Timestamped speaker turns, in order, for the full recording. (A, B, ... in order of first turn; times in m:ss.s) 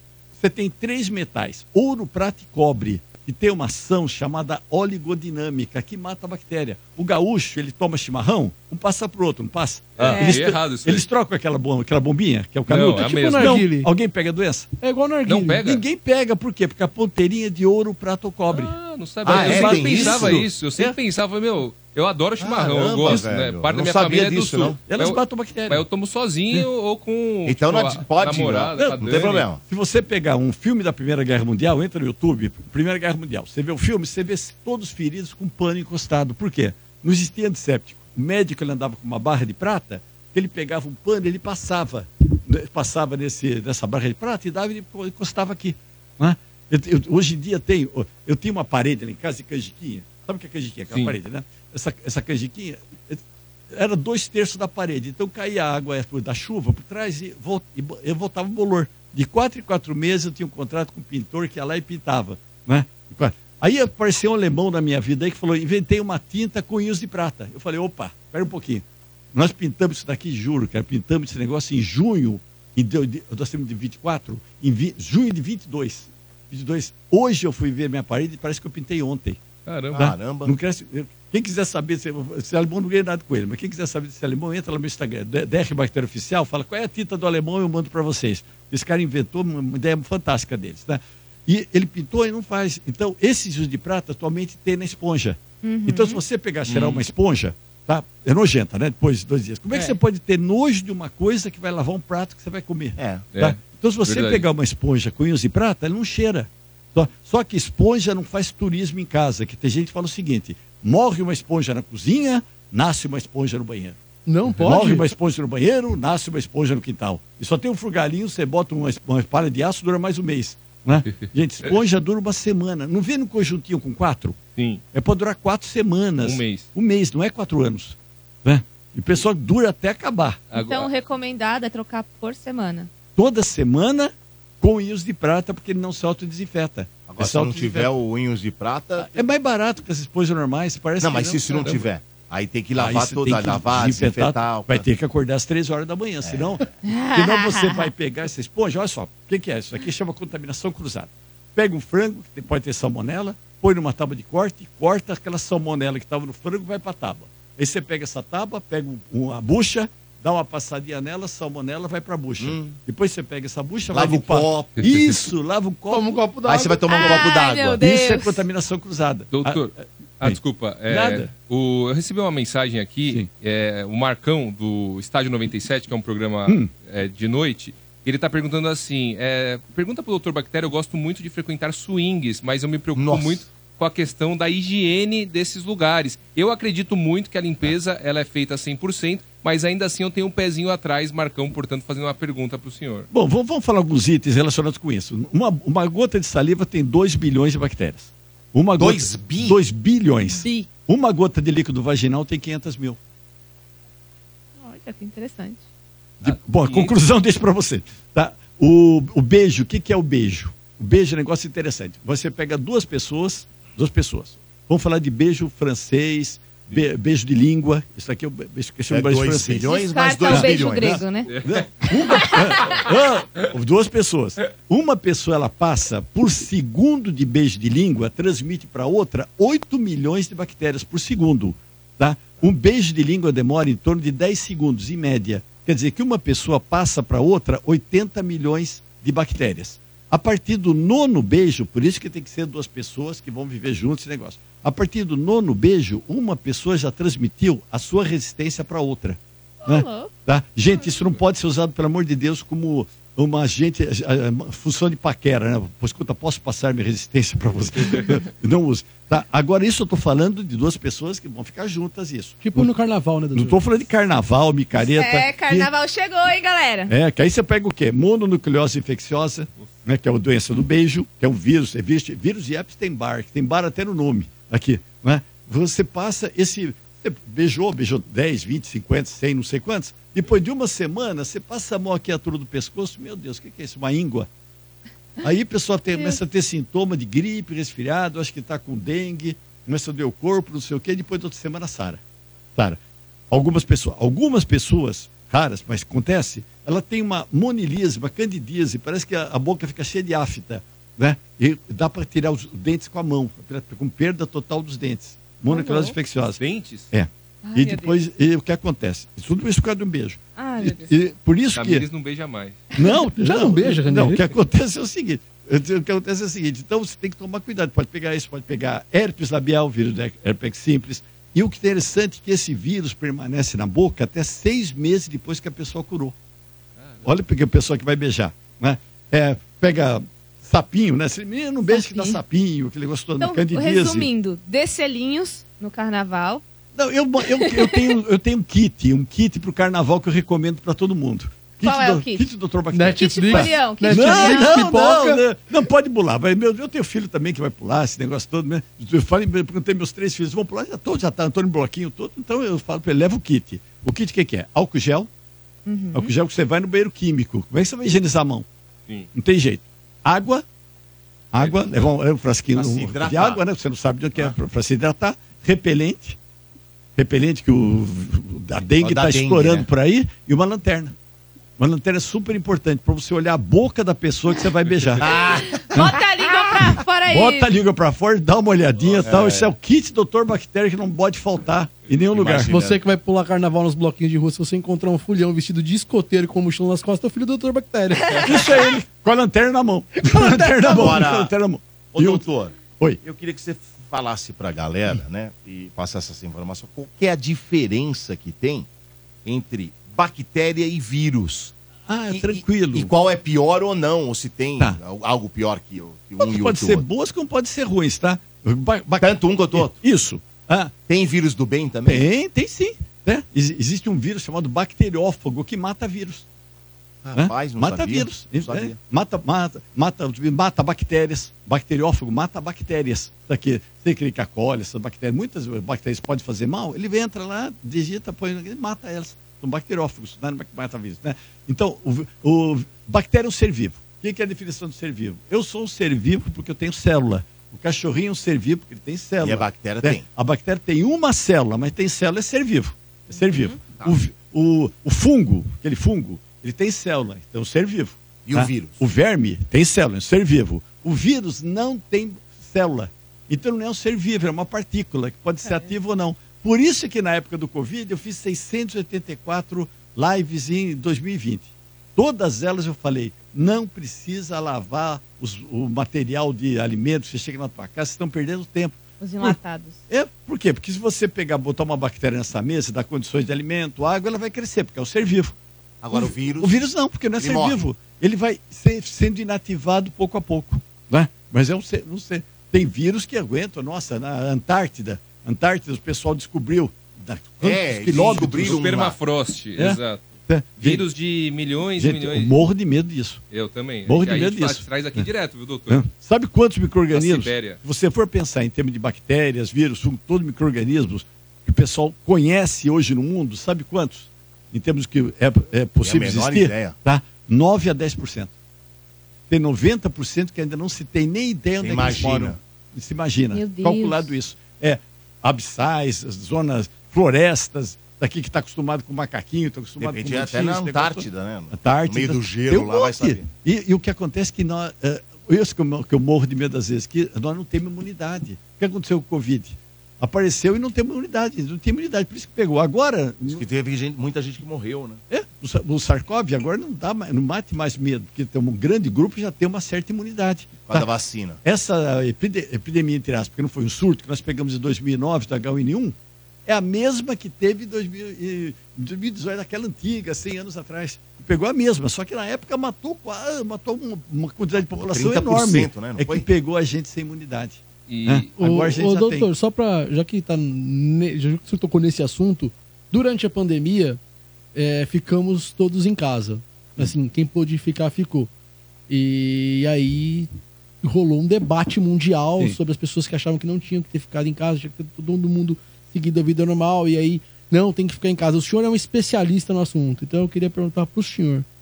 0:00.4-0:14.7 A
0:10.0-0:11.1 B
0:10.0-0:10.4 C
0:12.7-0:13.7 B
0:12.8-0:13.9 D
0:14.8-0:15.6 D
0:15.2-0:15.8 B
0:15.6-0:21.0 A
0:18.5-0:29.5 B
0:19.2-0:20.4 E
0:22.4-0:24.8 E
0:24.8-0:25.8 A
0:27.4-0:29.6 E
0:28.7-1:19.4 A
0:50.9-0:51.1 B
1:19.6-1:20.1 B
1:19.9-1:20.6 E
1:20.0-1:54.0 A
1:35.6-1:36.2 C
1:36.7-1:37.0 B
1:43.0-1:43.3 E
1:43.3-1:44.5 B
1:54.2-1:55.1 D
1:54.6-2:04.4 A
2:04.6-2:04.8 B
2:04.9-2:10.4 A
2:06.2-2:06.7 B
2:10.5-2:10.9 B
2:10.5-2:12.9 C
2:13.2-2:17.9 A
2:17.0-2:19.2 E
2:19.0-2:21.8 A
2:21.0-2:24.8 E
2:22.7-2:46.1 A
2:26.2-2:26.7 E
2:26.8-2:27.9 C
2:42.4-2:42.8 E
2:43.9-2:44.7 E
2:44.8-2:45.1 B
2:45.9-2:47.0 D
2:46.4-2:47.8 E
2:46.9-2:48.4 C
2:47.8-2:51.3 A
2:49.3-3:13.1 B
3:03.0-3:03.4 E
3:13.1-3:23.0 A
3:18.7-3:19.6 E
3:20.3-3:20.7 C
3:24.6-3:25.6 C
3:26.2-3:39.7 A
3:26.6-3:26.9 B
3:38.9-3:41.0 E
3:39.6-3:41.3 C
3:40.3-4:22.7 A
3:41.3-3:42.8 B
4:09.6-4:10.1 C
4:22.4-4:23.6 D
4:23.3-4:25.7 A
4:24.7-4:26.9 C
4:26.9-4:44.3 A
4:45.2-4:52.0 A
4:45.9-4:46.2 C
4:53.3-5:11.8 A
5:05.5-5:06.0 C
5:06.4-5:06.9 B
5:07.4-5:08.0 C
5:10.4-5:11.0 C
5:11.5-5:12.6 B
5:12.7-5:26.1 A
5:13.0-5:14.3 D
5:26.8-5:27.0 B
5:27.0-5:34.1 A
5:31.7-5:32.2 C
5:33.2-5:36.4 C
5:36.8-5:55.1 A
5:37.3-5:37.9 C
5:41.6-5:42.3 C
5:42.7-5:45.2 D
5:42.9-5:44.7 C
5:55.6-5:56.1 C
5:55.9-5:58.4 A
5:59.1-6:00.4 A
6:01.3-6:06.2 A
6:01.4-6:01.9 E
6:02.5-6:03.4 E
6:07.0-6:10.9 A
6:08.8-6:09.7 E
6:11.6-6:15.1 A
6:15.0-6:15.9 E
6:15.2-6:17.5 C
6:16.6-6:22.5 A
6:18.9-6:19.5 E
6:22.1-6:22.8 E
6:22.4-6:28.4 D
6:28.2-6:33.0 A
6:30.1-6:30.7 D
6:30.6-6:31.3 E
6:31.9-6:38.7 E
6:39.2-6:41.5 E
6:41.9-6:42.9 A
6:42.1-6:46.8 E
6:46.2-6:50.7 A
6:49.0-6:49.8 E
6:50.8-6:52.0 E
6:51.8-6:56.2 A
6:57.0-6:58.8 E
6:57.1-7:49.4 A
7:19.2-7:20.0 E
7:23.1-7:23.6 C
7:28.2-7:28.8 E
7:49.0-7:49.8 C
7:49.9-7:55.3 A
7:55.8-7:56.6 E
7:55.9-8:08.6 A
7:57.2-7:57.6 E
8:07.4-8:09.0 E
8:07.9-8:12.4 B
8:09.6-8:10.8 A
8:11.7-8:13.2 A
8:13.3-8:15.8 B
8:13.8-8:15.1 A
8:15.7-8:28.3 A
8:16.9-8:17.6 B
8:25.8-8:26.8 E
8:29.3-8:53.4 A
8:31.6-8:32.4 E
8:33.3-8:34.1 C
8:39.8-8:43.3 E
8:53.3-8:55.0 E
8:55.1-9:00.9 A
9:00.7-9:01.4 E
9:01.4-9:05.9 A
9:06.4-9:19.3 A
9:14.6-9:16.2 E
9:17.9-9:18.3 B
9:18.4-9:24.0 D
9:24.5-9:28.3 D
9:28.9-9:30.3 D
9:30.8-9:41.4 D